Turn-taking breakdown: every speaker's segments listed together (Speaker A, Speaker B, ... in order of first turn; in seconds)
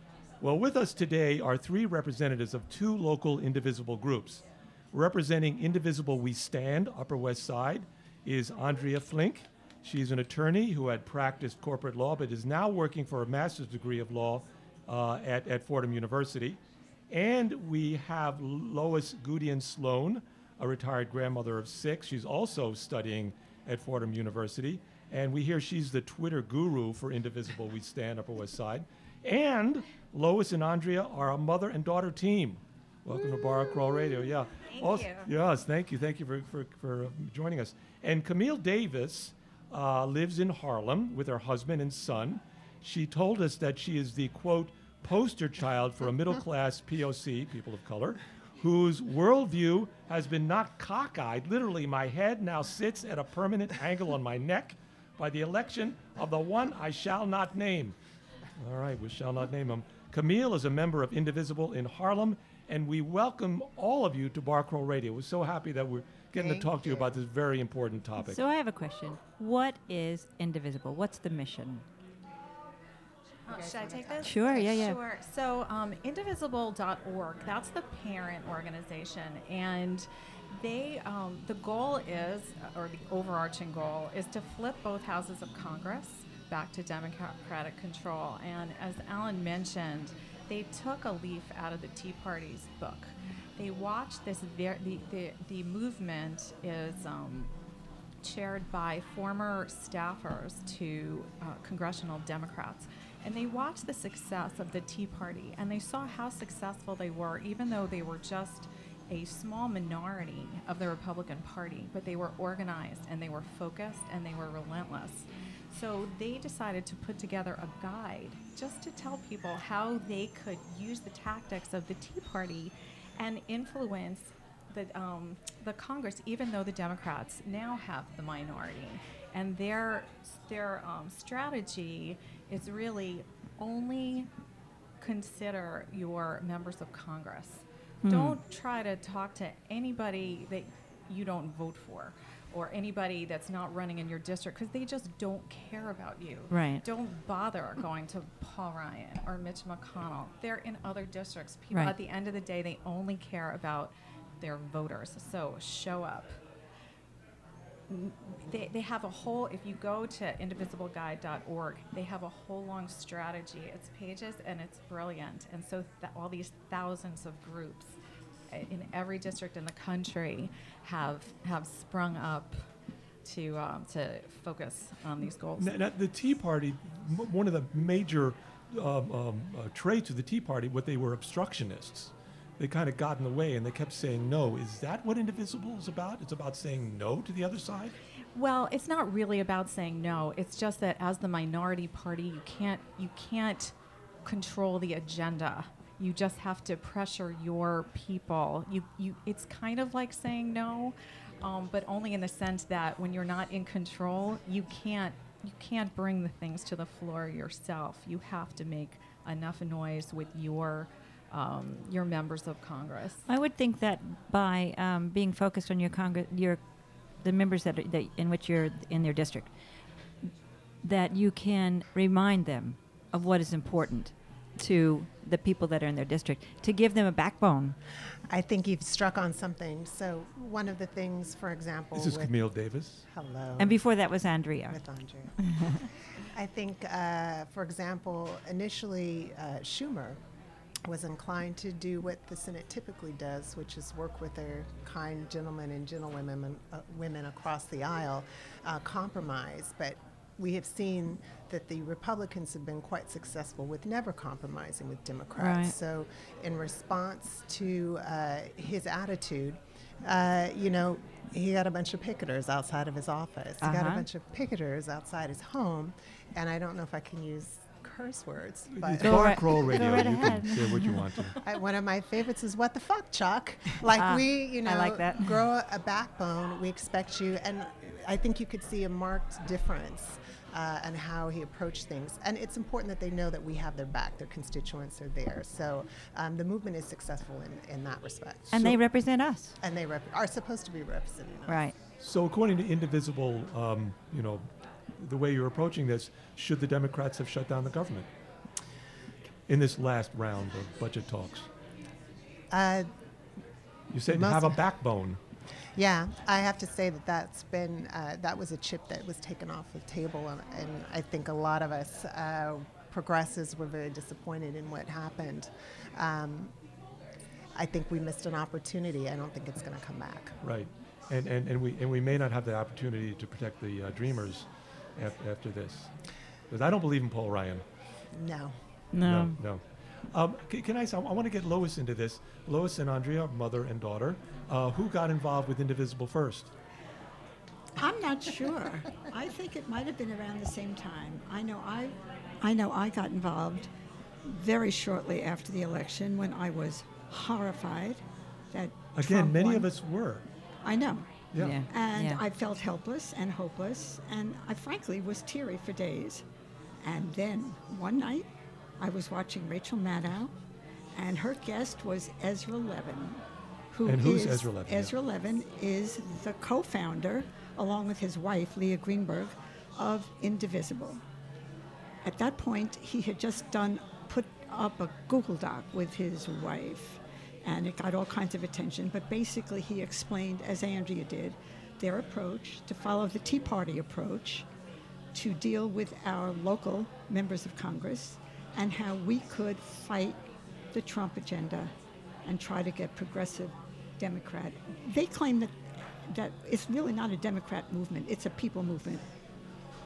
Speaker A: 0.4-58.0, 58.6-68.4, 175.6-187.9, 232.0-233.0, 268.7-271.4, 292.0-298.1, 299.5-301.5, 303.9-305.2, 320.4-325.9, 326.5-327.6, 329.0-336.5, 348.9-350.2, 351.3-351.7, 363.9-364.9
Speaker B: 34.7-35.3, 73.5-97.5, 98.2-134.3, 135.0-156.4, 157.9-168.0, 168.5-172.6, 173.2-175.7, 188.3-193.7, 194.2-213.2
Speaker C: 66.3-67.1, 73.5-74.3, 228.3-232.3, 233.1-233.8, 234.7-235.3, 236.3-240.2, 240.9-270.2, 271.4-288.7, 289.6-291.7, 302.5-302.9, 304.1-304.6, 305.8-316.5, 317.6-320.4, 328.1-328.5
Speaker D: 68.2-71.8, 74.2-75.0, 138.0-138.4, 146.5-146.8, 151.7-152.0, 213.3-216.6, 217.2-219.5, 220.8-227.8, 233.6-234.8, 255.4-255.7, 263.6-264.1, 269.0-270.9, 274.0-275.3, 288.5-289.5, 291.5-291.8, 328.9-329.4, 351.4-352.2
Speaker E: 337.8-343.7, 344.2-349.7, 350.6-351.1, 351.7-356.2, 356.8-358.3, 358.8-360.3, 360.9-371.0, 372.0-384.5, 385.1-391.7, 392.2-399.0